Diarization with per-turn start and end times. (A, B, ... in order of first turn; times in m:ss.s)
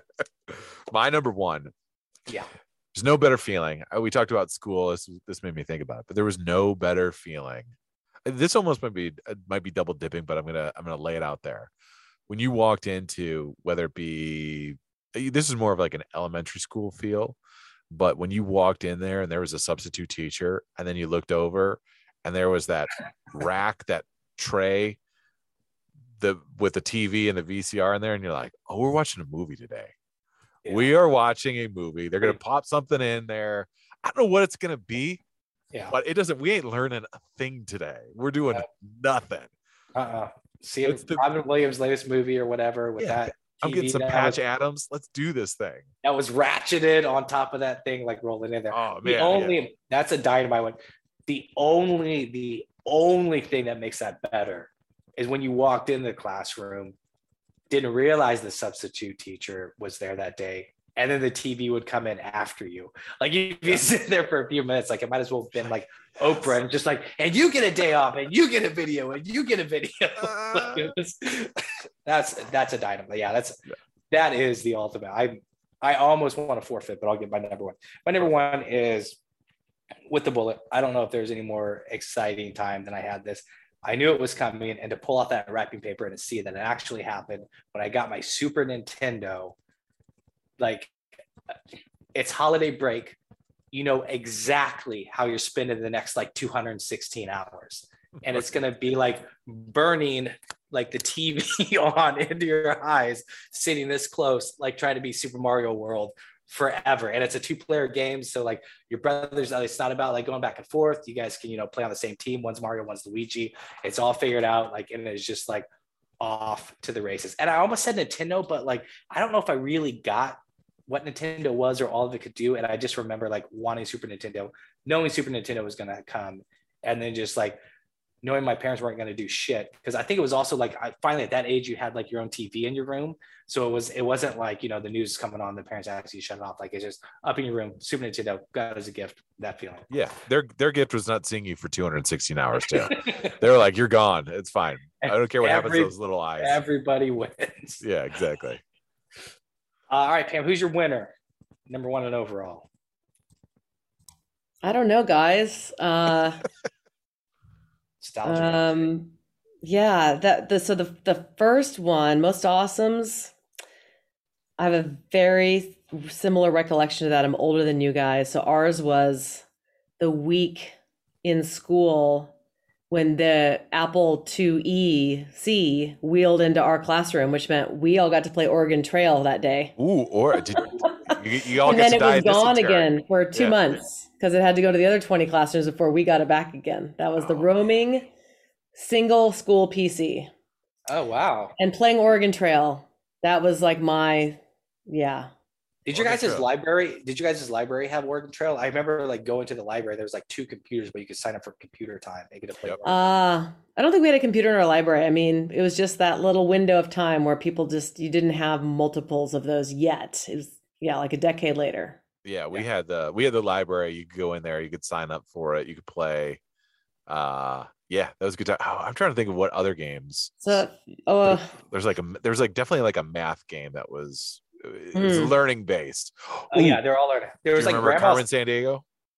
0:00.5-0:01.7 A
0:02.9-0:07.7 A
0:08.2-0:11.7 A
0:12.3-0:17.4 A
0:17.9-0:25.0 A
0:26.2-0:29.9 A
0:30.6-0:30.9 B
0:30.7-0:35.2 A
0:35.9-0:39.5 A
0:40.0-0:44.4 B
0:40.8-0:41.2 A
0:43.0-0:45.9 A
0:46.0-0:57.0 B
0:48.7-0:49.6 A
0:57.7-1:19.2 B
1:10.2-1:10.9 A
1:20.1-1:29.6 B
1:30.6-1:30.9 B
1:32.2-1:33.2 B
1:33.7-1:55.7 B
1:56.2-2:07.6 B
2:08.2-2:19.9 B
2:19.9-2:26.6 A
2:22.9-2:23.4 B
2:25.0-2:27.8 B
2:27.8-2:28.6 A
2:29.9-2:31.1 B
2:31.7-2:32.7 B
2:34.6-2:36.4 C
2:38.0-2:38.9 B
2:38.2-2:39.1 C
2:39.6-2:43.3 C
2:44.6-2:49.4 C
2:50.0-2:52.3 C
2:52.9-2:59.7 C
2:59.8-3:03.8 A
3:00.4-3:08.1 C
3:07.2-3:07.6 A
3:08.8-3:10.3 C
3:10.9-3:11.5 B
3:11.6-3:15.3 C
3:15.8-3:23.0 B
3:15.9-3:16.5 A
3:22.8-3:32.0 C
3:32.2-3:36.4 A
3:37.1-3:40.6 A
3:40.4-3:41.5 C
3:41.2-3:46.8 A
3:45.0-3:45.3 C
3:46.5-3:48.2 B
3:47.6-3:48.8 A